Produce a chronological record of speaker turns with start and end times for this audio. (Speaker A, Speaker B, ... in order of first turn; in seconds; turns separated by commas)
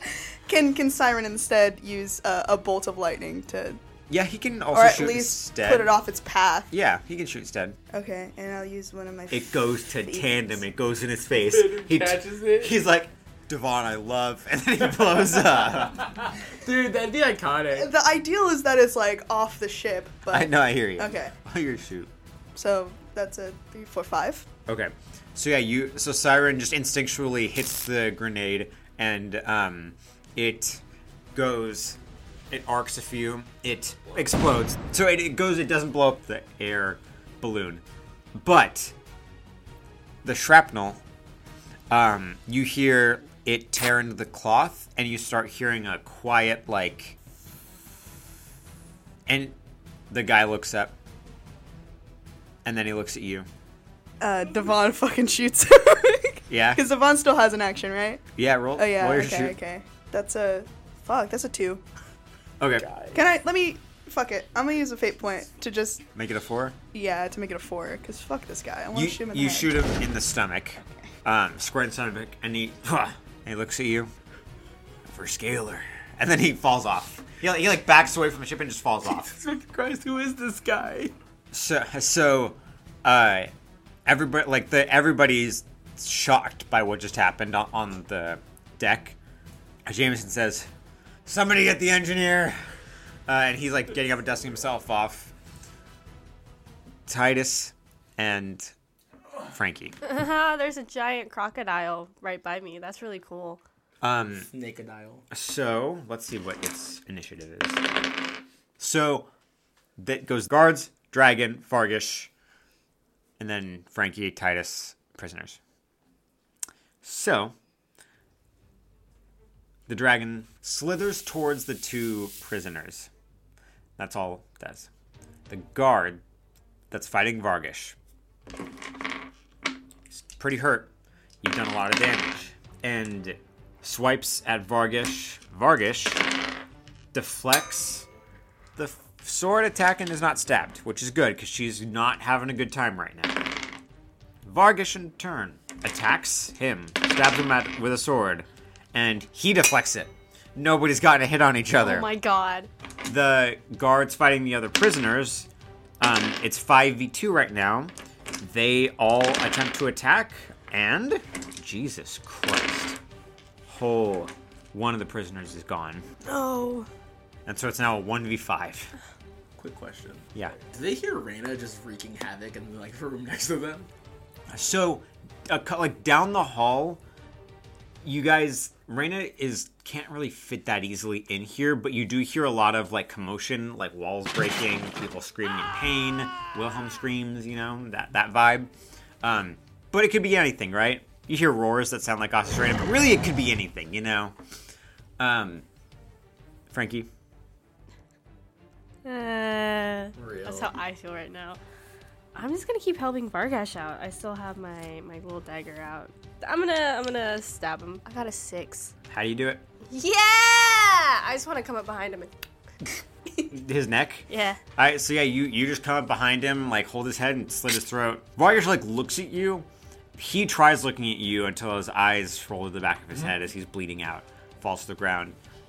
Speaker A: 0.5-3.8, Speaker B: 4.1-5.9, Speaker A: 4.7-6.7, Speaker B: 6.7-7.8, Speaker A: 7.9-10.6, Speaker B: 9.3-16.1, Speaker C: 11.5-12.8, Speaker C: 16.0-17.9, Speaker A: 17.7-21.3, Speaker B: 20.3-22.1, Speaker A: 22.6-24.5, Speaker B: 24.7-30.8, Speaker B: 31.3-32.0, Speaker B: 32.5-37.8, Speaker B: 38.4-38.9, Speaker B: 40.2-41.0, Speaker B: 41.9-47.1, Speaker B: 49.3-49.6, Speaker B: 50.1-50.9, Speaker B: 52.6-53.5, Speaker A: 54.2-61.8, Speaker B: 56.5-56.8, Speaker B: 58.4-59.6, Speaker B: 62.6-62.9, Speaker C: 62.8-63.2, Speaker A: 63.1-66.0, Speaker B: 66.1-66.8, Speaker A: 66.9-69.7, Speaker B: 68.9-74.1, Speaker B: 75.0-79.3, Speaker C: 79.1-81.1, Speaker B: 81.5-83.5, Speaker B: 84.1-89.2, Speaker B: 89.9-90.7, Speaker B: 91.2-92.6, Speaker B: 93.3-95.3, Speaker B: 97.1-98.7, Speaker B: 99.5-100.0, Speaker D: 100.0-103.6, Speaker B: 104.0-104.5, Speaker C: 104.5-105.2, Speaker B: 105.3-107.9, Speaker B: 108.8-109.3, Speaker B: 110.0-112.3, Speaker B: 113.4-115.6, Speaker B: 117.0-117.5, Speaker B: 119.9-123.1, Speaker B: 124.0-124.9, Speaker B: 125.5-126.2, Speaker B: 126.9-128.0, Speaker B: 130.1-130.9, Speaker B: 131.4-136.3, Speaker B: 137.1-138.1, Speaker B: 138.8-143.5, Speaker B: 144.4-152.1, Speaker D: 151.8-152.7, Speaker B: 153.1-155.5, Speaker B: 156.0-163.0, Speaker B: 163.7-166.1, Speaker D: 166.2-166.9, Speaker B: 167.4-168.9, Speaker C: 169.6-173.9, Speaker B: 174.5-177.0, Speaker B: 178.0-188.7, Speaker B: 189.2-194.4, Speaker B: 195.2-195.6, Speaker B: 196.7-197.1, Speaker D: 199.1-201.6, Speaker C: 200.2-200.7, Speaker D: 202.3-208.9, Speaker B: 209.1-209.6, Speaker D: 209.9-212.3, Speaker B: 213.5-225.4, Speaker D: 214.3-214.6